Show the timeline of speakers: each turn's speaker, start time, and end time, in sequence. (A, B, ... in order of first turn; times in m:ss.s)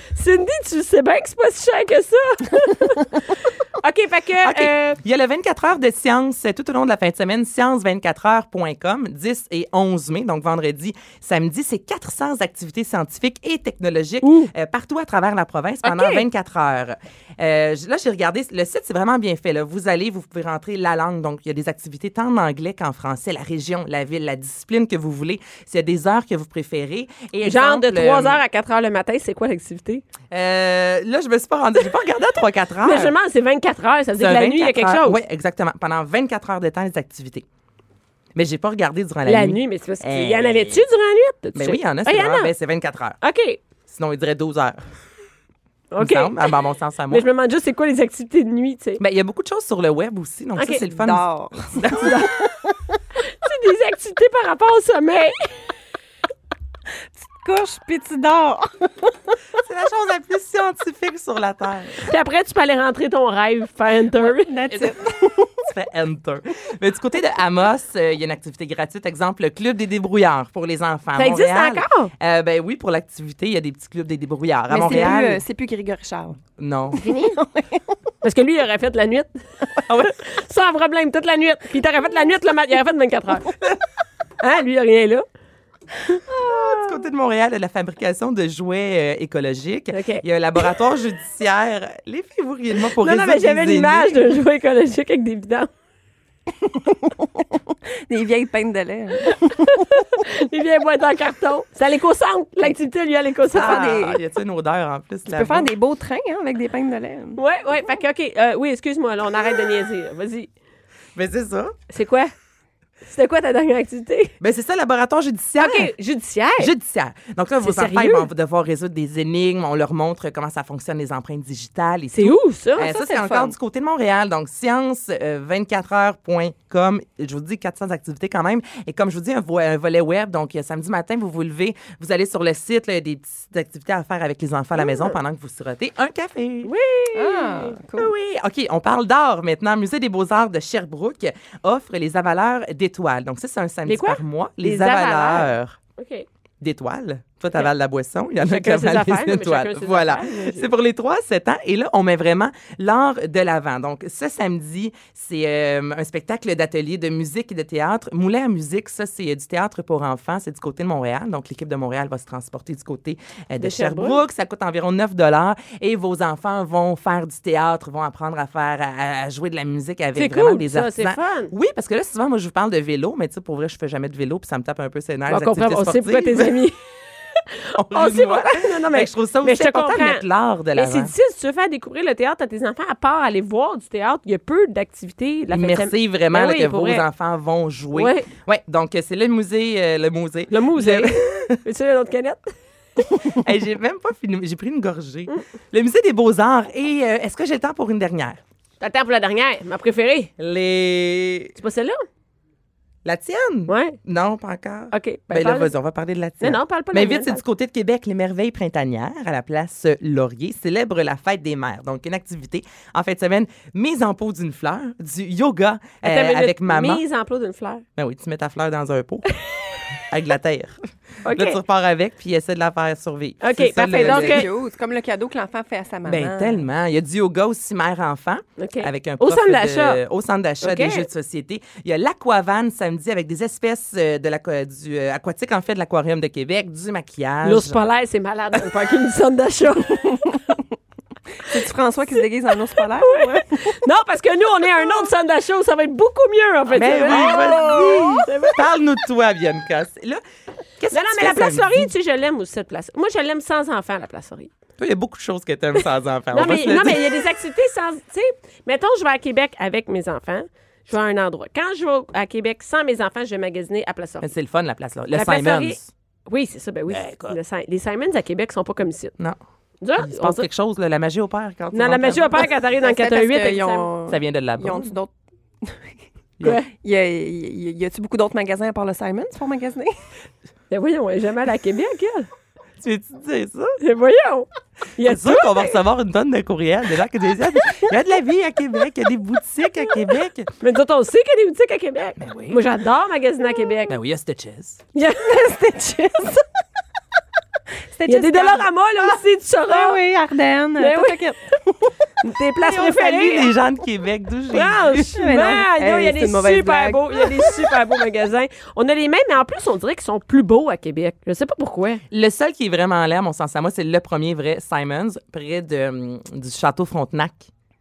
0:00.1-0:05.0 A
0:04.4-0:28.4 B
0:14.2-0:14.5 A
0:15.8-0:16.2 A
0:27.4-0:30.0 A
0:30.3-0:33.1 B
0:32.8-0:35.2 A
0:34.2-0:37.4 B
0:38.4-0:40.8 B
0:39.2-0:42.5 A
0:41.5-0:43.2 B
0:43.2-0:43.6 A
0:43.9-0:44.8 B
0:45.9-0:46.5 A
0:46.0-0:47.2 B
0:47.1-0:49.0 A
0:49.0-0:52.3 B
0:50.6-0:50.8 A
0:50.9-0:52.9 C
0:52.0-0:52.3 A
0:53.3-0:55.5 A
0:57.2-0:59.3 C
0:59.6-1:02.0 B
1:02.0-1:04.5 A
1:04.2-1:05.5 C
1:04.7-1:05.0 B
1:05.6-1:15.4 B
1:11.2-1:12.1 A
1:14.7-1:16.4 C
1:16.6-1:17.0 B
1:16.9-1:17.9 C
1:17.0-1:17.4 A
1:18.2-1:19.4 A
1:19.9-1:20.1 B
1:20.0-1:23.5 A
1:24.4-1:25.2 A
1:26.4-1:34.1 B
1:29.9-1:30.2 A
1:33.0-1:35.7 A
1:36.6-1:39.8 C
1:39.6-1:44.0 A
1:43.5-1:44.2 C
1:43.5-1:45.7 B
1:45.3-1:47.4 C
1:47.4-1:50.5 A
1:51.2-1:51.7 B
1:51.9-1:52.3 A
1:53.0-1:54.3 A
1:54.4-1:55.9 B
1:55.6-1:56.7 A
1:56.6-2:16.7 B
1:57.6-1:58.3 A
2:02.1-2:02.9 A
2:02.8-2:03.5 C
2:16.6-2:17.7 A
2:17.1-2:18.1 C
2:18.0-2:25.8 B
2:23.8-2:26.2 A
2:26.6-2:56.6 B
2:28.4-2:30.7 A
2:43.6-2:44.2 A
2:50.2-2:51.5 A
2:55.3-2:56.8 A
2:57.8-3:01.1 B
2:57.9-3:00.2 A
3:00.7-3:07.0 A
3:05.5-3:11.6 B
3:07.9-3:08.3 A
3:10.5-3:12.5 A
3:13.2-3:18.4 B
3:18.8-3:20.3 A
3:20.4-3:21.5 B
3:21.6-3:22.0 A
3:23.0-3:37.0 B
3:23.7-3:24.0 A
3:24.9-3:25.7 A
3:26.4-3:27.4 A
3:36.0-3:37.8 A
3:38.0-3:39.3 B
3:40.1-3:44.5 B
3:41.2-3:41.6 A
3:43.4-3:44.5 A
3:43.8-3:46.6 C
3:46.1-3:57.8 B
3:48.6-3:50.0 A
3:50.6-3:51.0 A
3:57.4-4:00.2 A
4:00.1-4:00.6 C
4:01.4-4:03.8 C
4:03.0-4:08.6 A
4:06.7-4:10.2 B
4:07.2-4:08.2 C
4:10.8-4:11.9 B
4:10.9-4:14.5 A
4:14.8-4:17.1 B
4:16.3-4:24.3 A
4:24.2-4:25.9 B
4:25.1-4:29.1 A
4:26.9-4:27.4 B
4:29.8-4:30.4 A
4:30.0-4:32.5 B
4:31.7-4:33.9 A
4:32.8-4:39.9 C
4:34.1-4:34.9 B
4:40.7-4:42.3 A
4:42.8-4:43.8 B
4:43.8-4:45.8 A
4:45.0-4:50.5 B
4:50.6-4:53.9 A
4:52.2-4:52.6 B
4:53.9-4:54.8 B
4:54.9-4:55.4 A
4:55.2-4:56.5 C
4:57.9-4:59.1 C
4:58.0-5:00.0 A
4:59.7-5:01.9 C
5:00.8-5:01.2 A
5:02.2-5:03.5 A
5:02.6-5:05.1 B
5:04.5-5:12.0 A
5:05.1-5:07.8 C
5:12.1-5:17.5 B